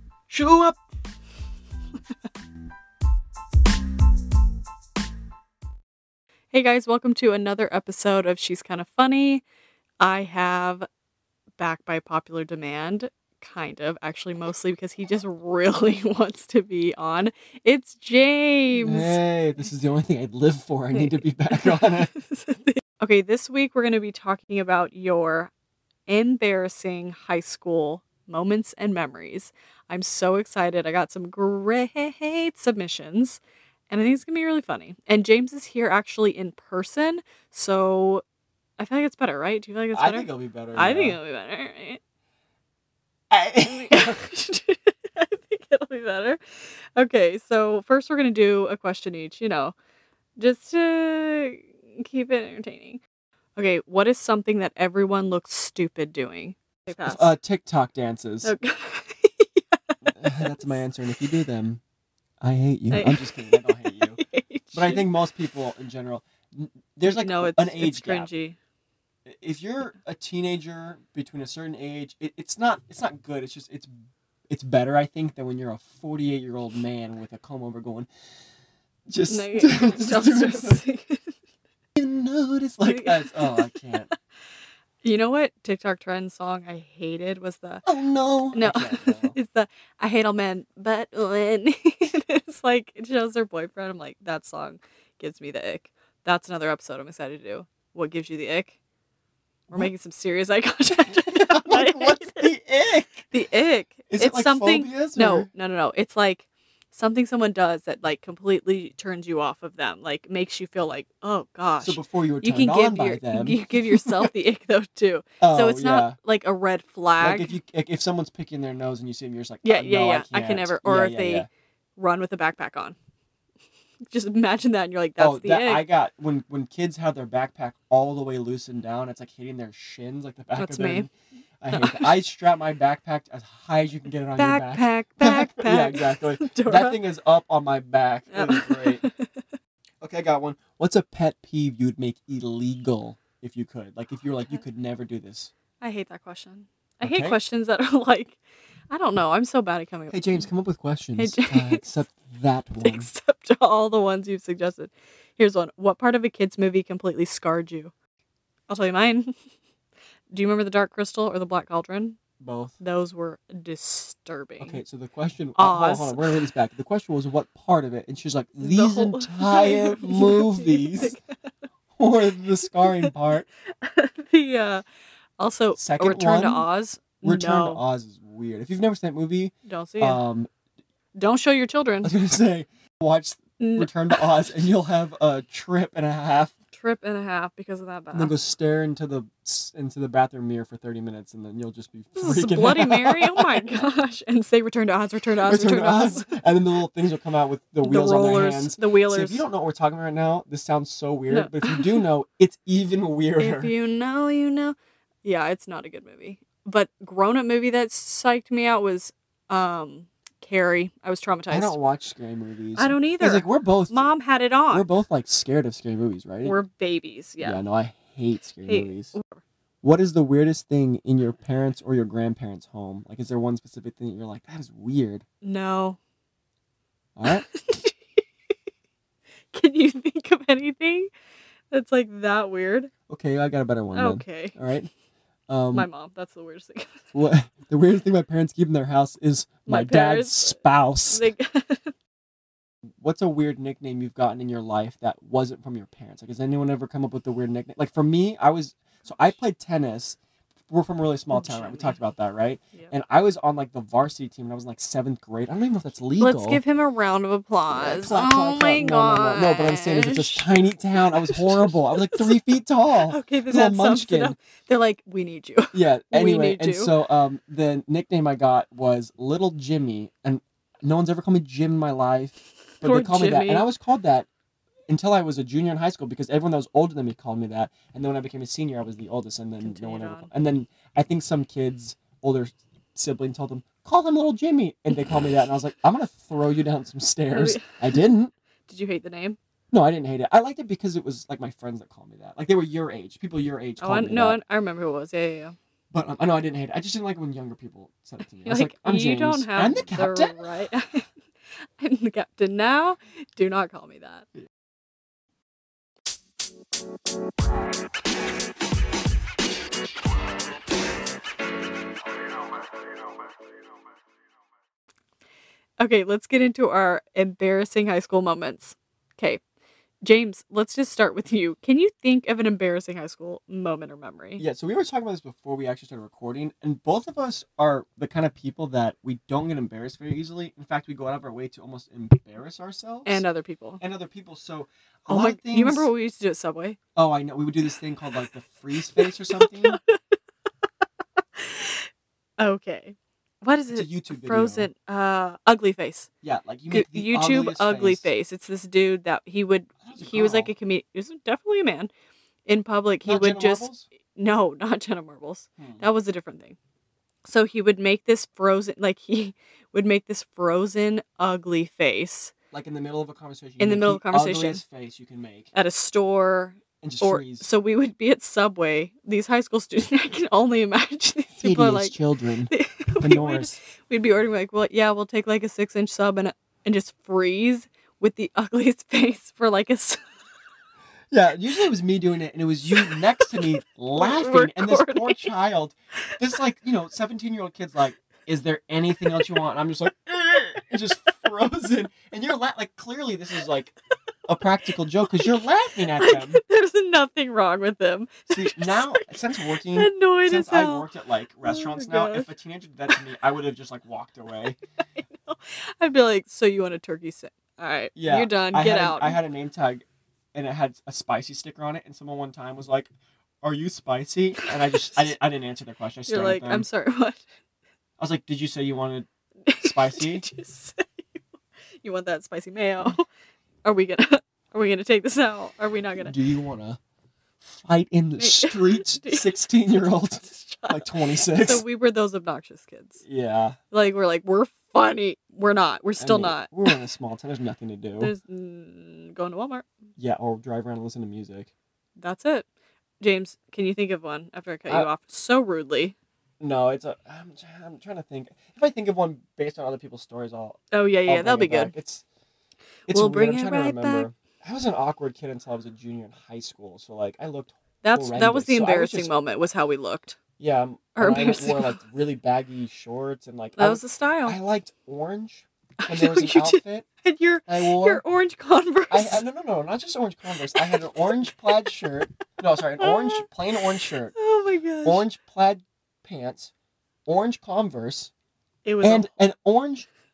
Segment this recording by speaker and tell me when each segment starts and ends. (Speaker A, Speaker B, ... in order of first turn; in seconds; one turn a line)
Speaker A: 0.3-0.8
Speaker B: 6.5-9.4
Speaker B: 10.0-10.9
Speaker B: 11.6-19.2
Speaker A: 18.8-22.1
Speaker B: 20.9-25.5
Speaker B: 26.1-33.4
Speaker B: 33.9-38.2
Speaker B: 38.8-42.0
Speaker A: 39.9-41.2
Speaker A: 43.3-44.2
Speaker B: 43.6-46.4
Speaker B: 47.0-49.7
Speaker B: 50.4-53.0
Speaker B: 53.5-57.2
Speaker A: 57.0-58.5
Speaker B: 58.4-60.8
Speaker A: 60.0-61.8
Speaker A: 62.4-64.2
Speaker B: 62.9-65.1
Speaker A: 64.7-68.3
Speaker B: 67.0-68.5
Speaker A: 69.2-73.9
Speaker A: 74.5-78.1
Speaker A: 79.1-80.8
Speaker B: 79.3-81.3
Speaker A: 82.0-84.1
Speaker B: 82.8-84.1
Speaker B: 85.0-87.8
Speaker A: 87.8-89.3
Speaker B: 88.5-98.8
Speaker B: 99.7-102.5
Speaker A: 101.0-103.3
Speaker B: 103.3-117.5
Speaker A: 104.1-105.5
Speaker A: 111.8-114.3
Speaker A: 115.4-116.2
Speaker A: 117.2-121.5
Speaker B: 119.6-123.0
Speaker B: 124.1-125.8
Speaker A: 125.2-139.0
Speaker B: 130.6-131.1
Speaker B: 131.7-132.1
Speaker B: 134.4-137.0
Speaker B: 138.3-139.5
Speaker A: 140.0-145.5
Speaker B: 145.8-148.4
Speaker A: 147.0-147.3
Speaker B: 148.9-150.5
Speaker A: 150.1-153.1
Speaker B: 151.2-151.9
Speaker B: 152.8-157.9
Speaker B: 158.7-159.3
Speaker B: 160.3-162.2
Speaker A: 162.4-162.7
Speaker B: 162.8-164.8
Speaker A: 164.6-171.2
Speaker B: 165.6-166.4
Speaker B: 168.6-171.2
Speaker A: 172.0-173.4
Speaker B: 172.7-173.1
Speaker B: 173.8-174.8
Speaker B: 175.4-177.8
Speaker A: 175.7-176.7
Speaker A: 177.2-180.5
Speaker B: 179.7-180.2
Speaker B: 181.2-182.1
Speaker A: 182.0-186.5
Speaker B: 183.6-184.3
Speaker B: 186.7-188.3
Speaker A: 188.1-193.8
Speaker B: 192.2-196.3
Speaker A: 195.4-203.7
Speaker B: 197.8-199.4
Speaker B: 201.3-202.0
Speaker B: 203.4-211.8
Speaker A: 211.5-214.0
Speaker B: 212.8-214.9
Speaker A: 214.7-216.6
Speaker B: 216.4-217.6
Speaker A: 217.4-219.1
Speaker B: 218.7-219.4
Speaker A: 219.8-225.2
Speaker B: 225.4-226.0
Speaker A: 227.2-227.4
Speaker B: 227.2-228.2
Speaker B: 229.5-231.1
Speaker B: 231.7-232.9
Speaker A: 233.1-234.9
Speaker B: 233.9-234.6
Speaker A: 235.5-235.9
Speaker B: 235.7-237.0
Speaker A: 237.1-241.2
Speaker B: 239.7-241.9
Speaker A: 243.0-250.2
Speaker A: 250.7-256.6
Speaker B: 251.3-252.0
Speaker B: 256.2-262.4
Speaker A: 257.7-264.3
Speaker B: 263.0-266.9
Speaker A: 265.7-274.3
Speaker B: 272.8-273.6
Speaker A: 274.9-288.3
Speaker B: 279.6-280.3
Speaker B: 287.3-288.0
Speaker B: 288.7-289.4
Speaker A: 289.7-294.4
Speaker B: 293.8-295.6
Speaker A: 295.9-300.4
Speaker B: 298.4-301.1
Speaker B: 301.8-304.2
Speaker B: 315.8-319.4
Speaker B: 320.0-324.4
Speaker A: 324.4-333.2
Speaker B: 333.1-333.8
Speaker A: 333.8-335.9
Speaker B: 335.1-336.8
Speaker A: 336.9-339.8
Speaker B: 338.9-340.0
Speaker B: 341.4-341.9
Speaker B: 342.4-346.1
Speaker A: 343.7-344.7
Speaker A: 346.2-348.1
Speaker B: 346.7-351.9
Speaker A: 349.8-350.5
Speaker B: 352.5-356.6
Speaker A: 353.0-353.9
Speaker A: 355.6-355.8
Speaker B: 357.2-362.3
Speaker A: 362.5-365.5
Speaker B: 363.6-364.6
Speaker B: 365.5-371.9
Speaker A: 366.8-367.5
Speaker A: 371.4-373.6
Speaker B: 372.5-380.0
Speaker A: 381.1-393.7
Speaker B: 382.7-385.3
Speaker A: 394.3-396.4
Speaker B: 395.9-400.9
Speaker A: 398.3-404.6
Speaker B: 401.4-402.3
Speaker B: 405.0-409.2
Speaker A: 407.9-412.9
Speaker A: 413.4-416.7
Speaker B: 414.4-415.0
Speaker B: 416.1-417.2
Speaker A: 418.0-419.1
Speaker B: 419.4-421.2
Speaker A: 419.6-420.2
Speaker B: 421.8-423.0
Speaker B: 423.6-426.1
Speaker A: 426.0-426.8
Speaker A: 427.4-431.6
Speaker B: 428.2-429.4
Speaker B: 430.2-433.0
Speaker A: 433.0-433.6
Speaker B: 433.7-436.8
Speaker A: 436.0-438.1
Speaker B: 438.0-439.6
Speaker A: 440.0-441.5
Speaker B: 442.0-442.4
Speaker B: 443.0-445.9
Speaker A: 446.4-452.0
Speaker B: 450.7-451.7
Speaker A: 452.9-459.1
Speaker B: 452.9-454.1
Speaker B: 457.8-460.1
Speaker A: 460.4-466.9
Speaker B: 461.0-461.8
Speaker B: 463.6-464.4
Speaker B: 465.8-469.2
Speaker A: 467.5-468.0
Speaker A: 468.9-474.1
Speaker B: 470.5-471.5
Speaker B: 472.8-473.3
Speaker B: 474.1-475.0
Speaker A: 474.8-476.5
Speaker A: 477.1-478.1
Speaker B: 478.6-479.1
Speaker A: 478.8-479.9